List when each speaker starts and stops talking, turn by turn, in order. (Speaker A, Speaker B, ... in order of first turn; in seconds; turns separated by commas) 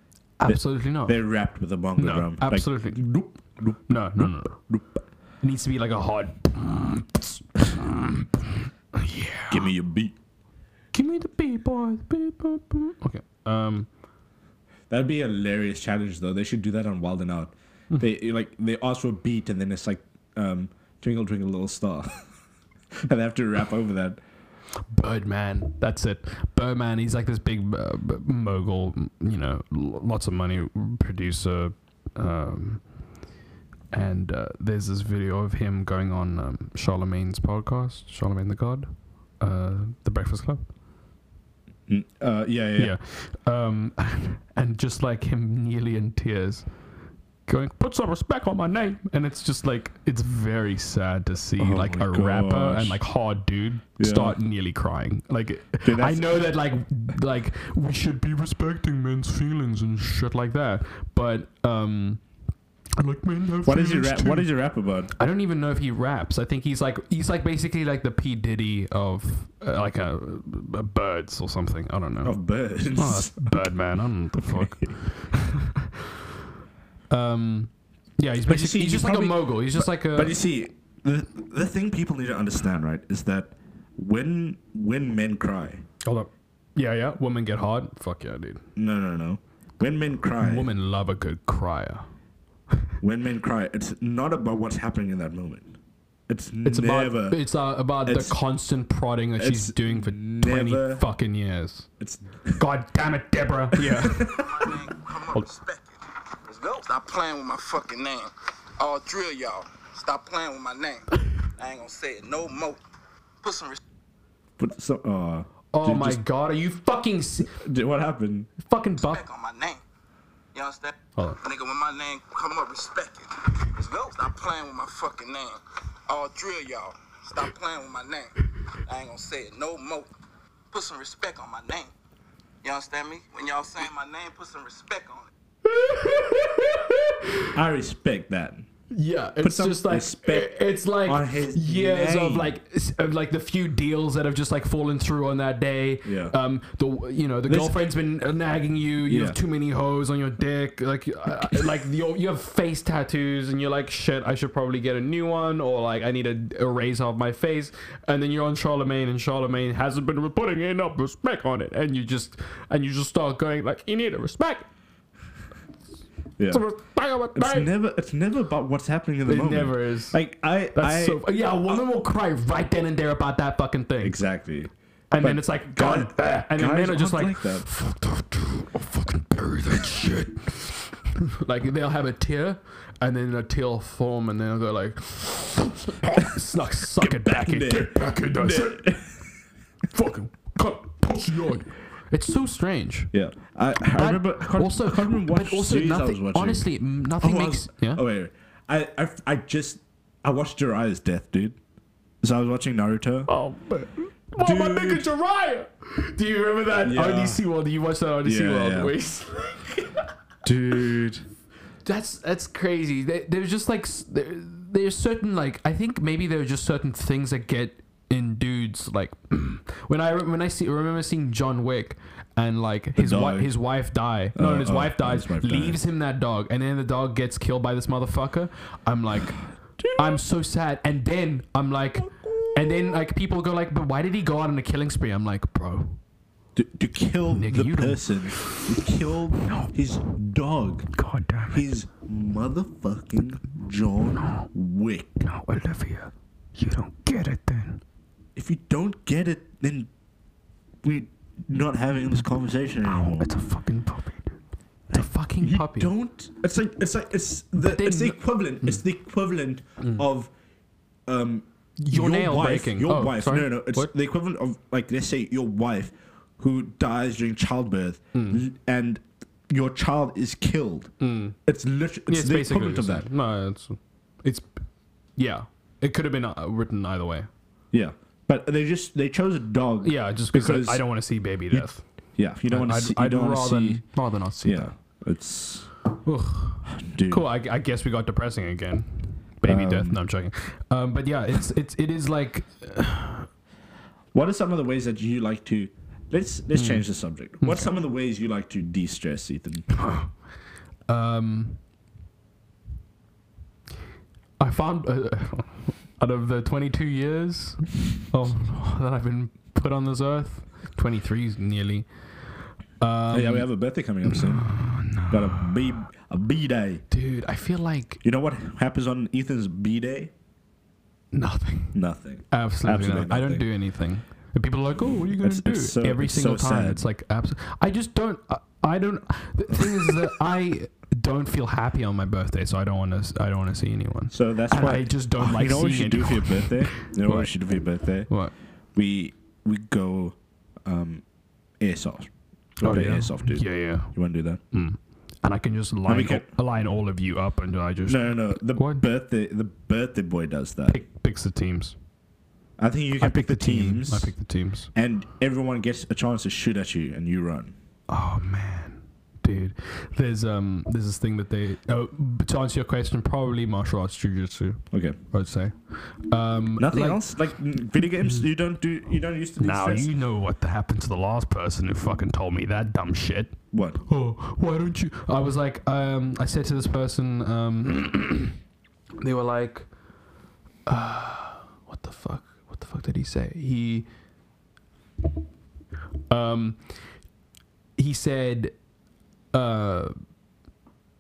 Speaker A: 0.4-1.2, Speaker B: 0.5-5.0, Speaker A: 2.0-3.0, Speaker A: 3.9-4.6, Speaker A: 5.4-9.7, Speaker B: 9.5-10.1, Speaker A: 10.9-13.9, Speaker B: 14.9-22.2, Speaker B: 23.0-24.2, Speaker A: 24.9-32.8, Speaker A: 33.9-40.6, Speaker B: 41.9-42.9, Speaker A: 42.8-46.7, Speaker A: 47.5-62.2, Speaker B: 51.6-53.0, Speaker B: 54.0-54.4, Speaker B: 55.8-56.4, Speaker A: 63.0-64.5, Speaker B: 63.6-65.1, Speaker A: 65.2-72.3, Speaker B: 72.2-73.6, Speaker A: 72.9-76.1, Speaker B: 74.4-74.9, Speaker A: 77.1-80.4, Speaker B: 78.4-85.8, Speaker A: 86.0-88.6, Speaker B: 88.8-90.7, Speaker A: 90.4-92.0, Speaker B: 93.0-95.7, Speaker B: 96.3-97.4, Speaker A: 96.6-101.9, Speaker B: 98.0-98.3, Speaker B: 99.4-101.0, Speaker B: 102.0-102.6, Speaker A: 102.6-104.5, Speaker B: 103.7-104.7, Speaker C: 104.2-112.8, Speaker C: 113.4-113.8, Speaker B: 114.6-116.2, Speaker A: 115.7-117.5, Speaker B: 117.5-118.5, Speaker A: 118.6-119.2, Speaker C: 119.0-119.8, Speaker C: 120.5-130.1, Speaker C: 130.7-131.9, Speaker C: 132.6-135.3, Speaker A: 135.6-137.5, Speaker B: 137.5-138.7, Speaker A: 138.9-164.7, Speaker B: 139.4-142.5, Speaker B: 146.0-146.3, Speaker B: 147.5-147.8, Speaker B: 149.1-149.4, Speaker A: 166.5-167.7, Speaker B: 167.3-171.8, Speaker A: 169.2-170.2, Speaker A: 170.7-174.2, Speaker B: 174.0-177.7, Speaker A: 175.1-188.8, Speaker B: 187.0-189.2, Speaker A: 189.9-193.1, Speaker B: 193.1-196.7, Speaker A: 193.9-198.0, Speaker B: 197.2-201.6, Speaker B: 202.2-203.3, Speaker A: 203.3-210.0, Speaker B: 204.4-205.1, Speaker B: 206.8-207.4, Speaker B: 208.2-208.9, Speaker B: 210.4-211.2, Speaker A: 211.8-236.0, Speaker B: 222.9-223.5, Speaker B: 224.3-225.8, Speaker B: 229.8-230.2, Speaker B: 231.9-233.0, Speaker B: 236.5-240.9, Speaker A: 237.3-238.7, Speaker A: 239.4-239.7, Speaker A: 240.9-241.7, Speaker B: 241.5-245.2, Speaker A: 244.2-244.5, Speaker A: 245.2-247.8, Speaker B: 248.3-249.9, Speaker B: 250.8-253.3, Speaker A: 252.8-254.3, Speaker A: 254.9-255.9, Speaker B: 254.9-260.3, Speaker A: 257.6-258.8, Speaker B: 261.1-270.9, Speaker A: 261.8-263.9, Speaker A: 268.1-268.4, Speaker A: 271.0-271.4, Speaker B: 271.4-273.1, Speaker A: 272.1-274.5, Speaker A: 275.2-277.3, Speaker B: 277.7-280.8, Speaker A: 279.8-281.8, Speaker B: 281.5-283.8, Speaker A: 282.5-284.7, Speaker B: 284.4-285.7, Speaker A: 286.0-293.3, Speaker B: 286.7-287.2, Speaker B: 289.5-290.0, Speaker B: 294.1-299.7, Speaker A: 296.5-296.9, Speaker A: 297.4-297.7, Speaker A: 299.7-300.1, Speaker A: 300.9-301.6, Speaker A: 304.4-311.9, Speaker A: 312.8-313.5, Speaker B: 313.1-316.8, Speaker A: 314.0-315.5, Speaker A: 316.9-318.0, Speaker B: 318.0-320.1, Speaker A: 321.1-321.8, Speaker B: 321.7-323.4, Speaker A: 322.3-337.3, Speaker B: 325.2-326.8, Speaker B: 329.5-330.1, Speaker B: 334.1-338.1, Speaker A: 338.1-338.3, Speaker B: 338.7-341.0, Speaker B: 341.6-344.4, Speaker A: 342.6-343.9, Speaker A: 344.5-348.8, Speaker B: 345.9-346.3, Speaker B: 347.9-350.8, Speaker A: 350.7-351.8, Speaker B: 352.6-354.1, Speaker A: 353.0-354.7, Speaker B: 354.7-357.5, Speaker A: 357.9-367.1, Speaker B: 364.7-365.0, Speaker B: 366.6-369.9, Speaker A: 369.4-378.4, Speaker B: 373.5-373.8, Speaker A: 379.0-379.7, Speaker A: 380.6-383.9, Speaker A: 386.1-386.6, Speaker A: 387.8-388.6, Speaker A: 389.3-389.9